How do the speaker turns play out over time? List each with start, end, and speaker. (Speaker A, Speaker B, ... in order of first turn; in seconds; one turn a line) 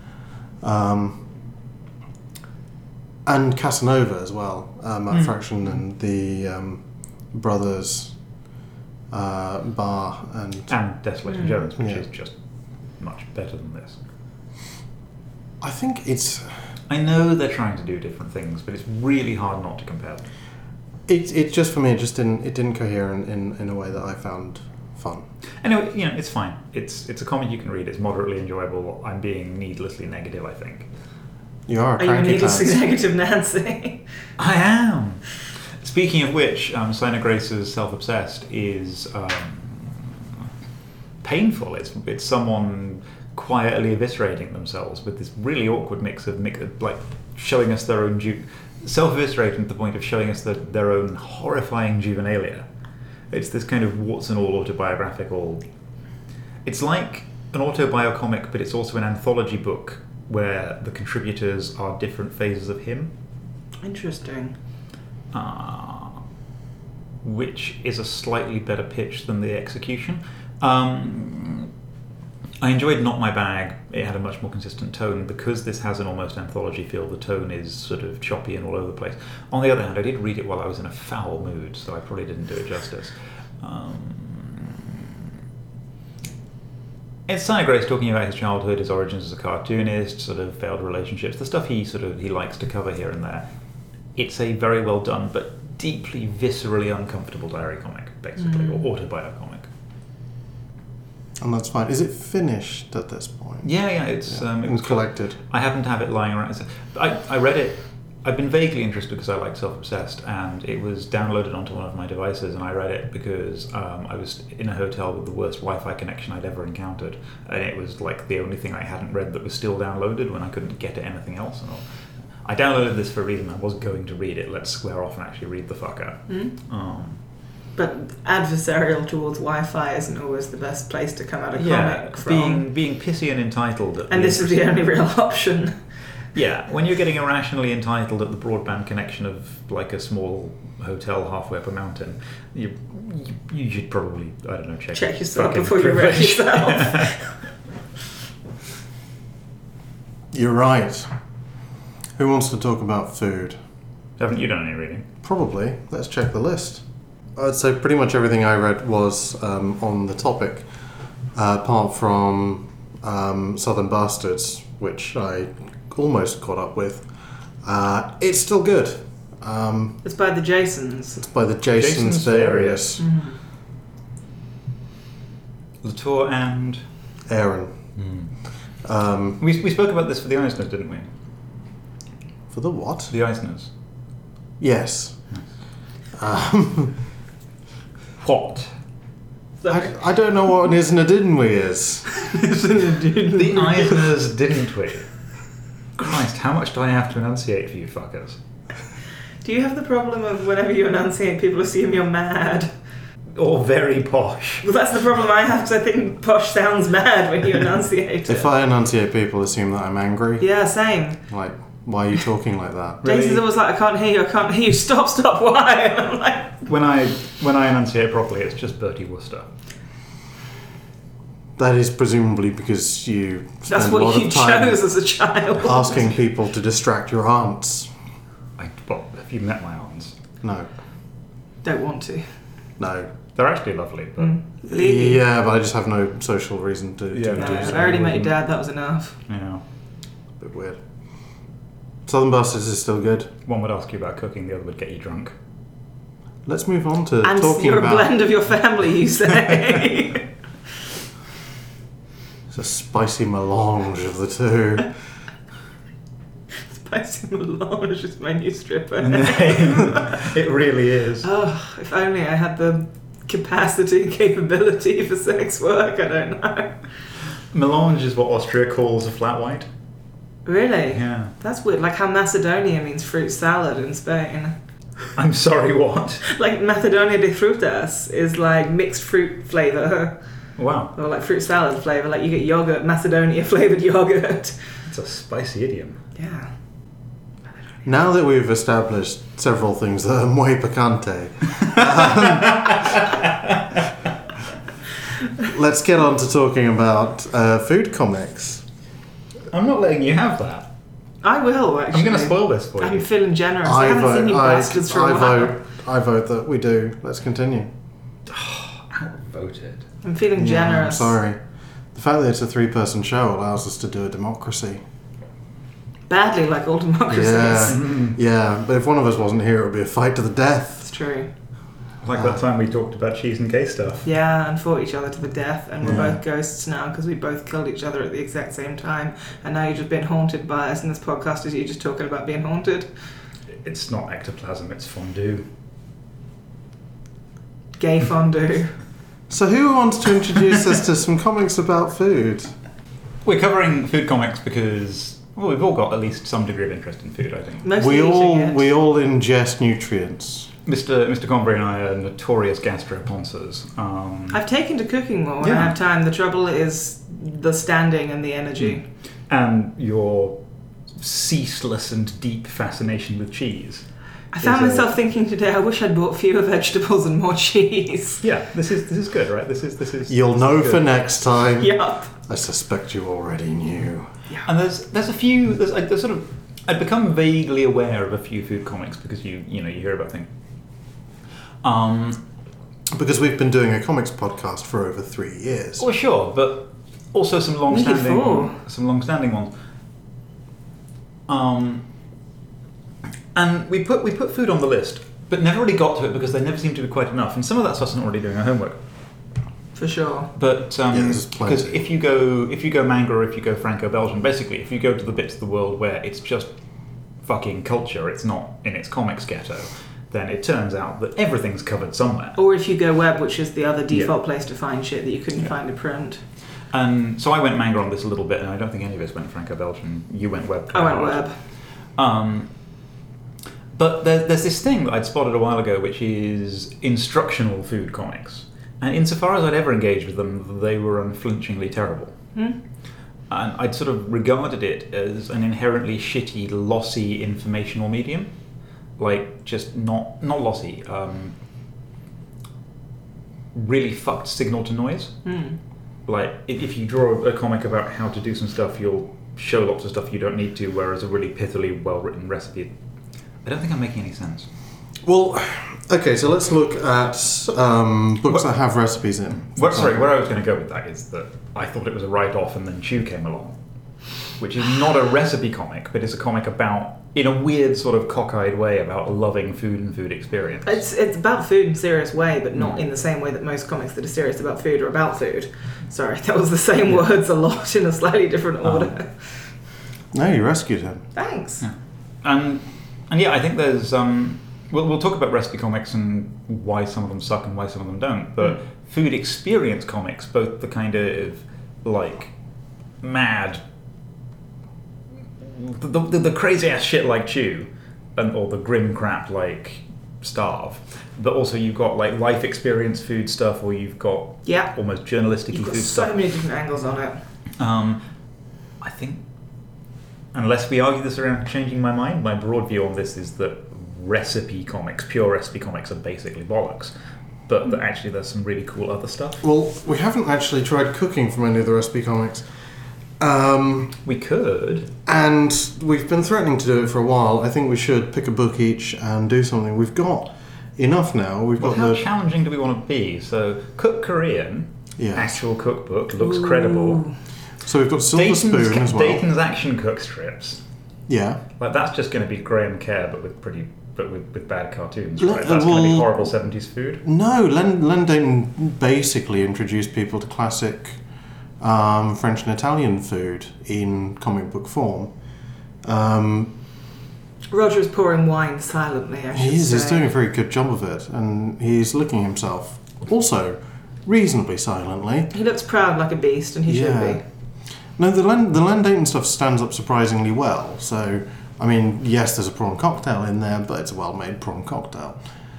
Speaker A: 0.6-1.3
Speaker A: 3.2-8.2
Speaker A: 9.1-10.7
Speaker B: 10.7-12.3
Speaker A: 11.8-12.0
Speaker B: 13.0-14.0
Speaker A: 15.6-16.5
Speaker B: 16.9-20.3
Speaker A: 21.1-25.3
Speaker B: 25.6-30.9
Speaker A: 31.7-32.8
Speaker C: 32.0-34.0
Speaker B: 34.4-35.3
Speaker B: 35.8-40.3
Speaker B: 41.2-52.7
Speaker B: 53.3-55.6
Speaker B: 56.6-63.1
Speaker C: 63.8-64.5
Speaker B: 65.3-66.2
Speaker B: 67.2-71.7
Speaker B: 72.6-85.1
Speaker B: 87.3-93.5
Speaker B: 94.2-99.7
Speaker A: 101.4-103.7
Speaker B: 103.6-121.8
Speaker A: 104.3-105.4
Speaker B: 122.4-127.2
Speaker C: 127.8-132.6
Speaker B: 131.6-134.7
Speaker C: 134.1-135.8
Speaker B: 136.3-147.2
Speaker C: 144.9-147.3
Speaker A: 150.3-151.1
Speaker A: 152.2-153.6
Speaker B: 154.2-155.1
Speaker A: 155.2-156.8
Speaker A: 157.4-160.7
Speaker A: 161.3-167.1
Speaker A: 167.6-170.0
Speaker C: 170.0-171.2
Speaker A: 171.2-173.0
Speaker B: 171.7-173.0
Speaker C: 173.0-173.4
Speaker B: 175.8-176.8
Speaker A: 177.3-177.8
Speaker B: 178.0-178.3
Speaker A: 178.8-179.4
Speaker B: 179.4-181.1
Speaker A: 182.5-183.1
Speaker B: 183.1-183.7
Speaker A: 184.6-185.2
Speaker A: 186.2-186.9
Speaker B: 188.2-188.7
Speaker C: 189.6-189.9
Speaker A: 189.7-192.1
Speaker C: 192.1-194.0
Speaker B: 193.3-195.1
Speaker B: 195.9-198.4
Speaker C: 199.4-202.7
Speaker B: 203.3-204.6
Speaker C: 204.6-208.5
Speaker A: 208.3-210.4
Speaker C: 210.4-211.2
Speaker A: 211.3-213.0
Speaker B: 213.0-213.4
Speaker C: 213.1-216.6
Speaker B: 216.7-219.5
Speaker A: 221.6-224.8
Speaker C: 223.7-226.1
Speaker A: 225.6-227.9
Speaker B: 228.6-230.1
Speaker A: 230.4-230.7
Speaker C: 231.6-232.3
Speaker A: 232.8-233.1
Speaker B: 233.3-234.4
Speaker C: 234.2-235.2
Speaker A: 234.7-238.1
Speaker B: 237.1-238.4
Speaker C: 237.3-239.2
Speaker B: 239.3-239.6
Speaker A: 240.4-240.8
Speaker A: 242.1-243.3
Speaker B: 243.4-245.3
Speaker A: 246.4-248.1
Speaker C: 247.2-250.3
Speaker A: 252.5-254.9
Speaker C: 256.7-260.2
Speaker B: 259.0-261.3
Speaker C: 261.2-266.8
Speaker B: 267.5-269.7
Speaker C: 270.4-274.6
Speaker B: 270.9-271.3
Speaker B: 275.1-276.2
Speaker C: 276.2-280.2
Speaker B: 280.6-280.9
Speaker C: 280.9-284.6
Speaker B: 284.9-286.0
Speaker C: 286.2-286.5
Speaker A: 287.8-293.0
Speaker B: 292.2-293.8
Speaker A: 295.4-298.6
Speaker B: 299.5-300.7
Speaker C: 301.2-305.6
Speaker B: 301.9-303.1
Speaker A: 303.6-307.7
Speaker B: 308.3-309.9
Speaker C: 310.0-311.1
Speaker A: 310.4-311.4
Speaker A: 311.9-314.8
Speaker C: 316.1-317.8
Speaker A: 317.1-320.9
Speaker B: 317.7-318.1
Speaker C: 320.8-321.3
Speaker B: 322.0-324.1
Speaker C: 324.1-332.9
Speaker B: 333.6-335.5
Speaker C: 337.8-338.7
Speaker A: 339.3-342.5
Speaker B: 343.2-347.7
Speaker C: 347.6-348.6
Speaker A: 347.8-350.5
Speaker B: 350.7-354.4
Speaker C: 354.3-358.8
Speaker B: 355.4-355.7
Speaker B: 359.3-360.4
Speaker B: 360.9-363.8
Speaker C: 364.3-368.2
Speaker B: 364.4-364.9
Speaker B: 368.2-370.9
Speaker A: 370.1-374.1
Speaker C: 371.6-372.1
Speaker B: 374.4-380.3
Speaker B: 381.6-382.2
Speaker A: 382.9-385.9
Speaker B: 385.8-389.5
Speaker C: 387.7-388.6
Speaker B: 391.3-391.8
Speaker B: 393.3-398.8
Speaker C: 399.8-400.3
Speaker B: 400.4-406.5
Speaker A: 400.9-401.8
Speaker B: 407.2-412.4
Speaker C: 412.4-416.2
Speaker B: 416.7-421.3
Speaker C: 420.7-421.4
Speaker B: 421.9-422.5
Speaker B: 423.7-432.1
Speaker B: 433.3-438.3
Speaker B: 439.0-441.3
Speaker B: 443.5-445.2
Speaker C: 445.3-445.6
Speaker B: 446.1-452.7
Speaker B: 453.4-454.5
Speaker A: 455.0-460.1
Speaker B: 459.5-463.6
Speaker B: 464.4-470.8
Speaker C: 470.6-479.1
Speaker A: 480.1-481.1
Speaker C: 481.1-481.6
Speaker B: 481.6-492.3
Speaker B: 493.0-493.6
Speaker B: 495.4-506.2
Speaker C: 504.4-504.7
Speaker C: 505.5-507.2
Speaker B: 507.6-508.0
Speaker B: 508.8-509.2
Speaker B: 510.3-516.9
Speaker B: 517.5-519.4
Speaker A: 519.4-522.5
Speaker A: 523.2-524.0
Speaker B: 524.0-525.0
Speaker A: 525.0-532.0
Speaker B: 531.6-537.1
Speaker A: 535.0-535.4
Speaker C: 536.2-537.1
Speaker A: 537.6-539.2
Speaker B: 538.1-540.6
Speaker A: 541.1-541.4
Speaker B: 541.6-547.0
Speaker A: 545.2-546.3
Speaker A: 547.0-551.0
Speaker A: 551.6-555.1
Speaker A: 555.8-556.5
Speaker C: 557.5-560.1
Speaker A: 559.3-565.3
Speaker C: 565.3-567.2
Speaker A: 566.7-567.2
Speaker A: 568.0-575.2